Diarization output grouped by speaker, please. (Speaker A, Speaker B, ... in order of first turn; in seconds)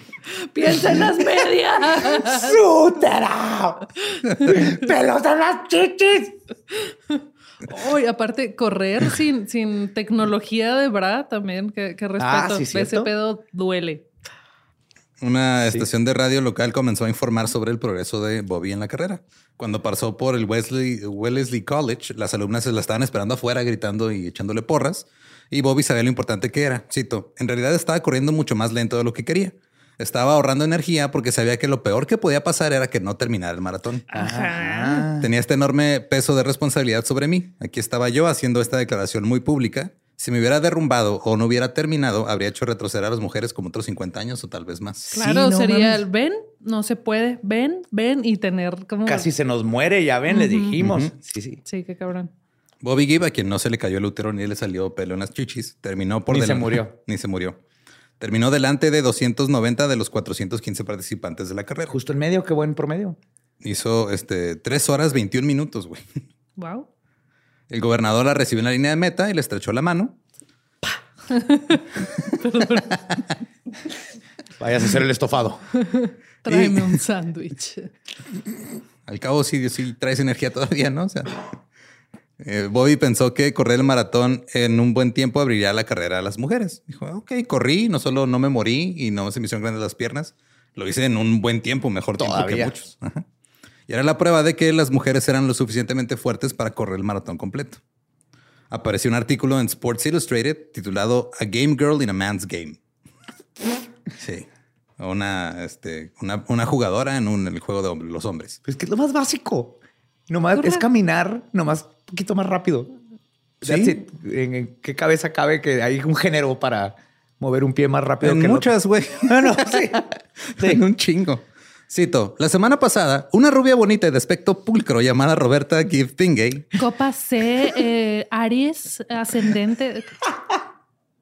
Speaker A: 0.3-2.6, 6.7-14.1, 34.1-35.1, 45.1-49.3, 50.3-50.7, 51.6-52.3, 66.6-66.9, 71.3-73.0, 75.8-77.9, 110.5-110.8, 126.8-130.1
Speaker B: 0.6-6.4, 12.2-13.1, 34.1-35.3, 45.1-46.0, 49.0-51.6, 56.3-56.9, 61.9-63.2, 74.6-75.6, 92.2-92.7, 108.7-109.8, 110.3-112.9, 113.6-120.8
Speaker C: 15.2-34.1, 35.2-45.1, 50.8-51.1, 52.8-57.6, 58.2-62.0, 63.6-66.0, 67.7-70.2, 76.5-77.0, 79.1-81.5, 82.4-93.2, 93.9-97.8, 98.7-102.8, 104.2-104.5, 105.0-108.6, 113.6-114.0, 118.2-119.9, 120.5-126.8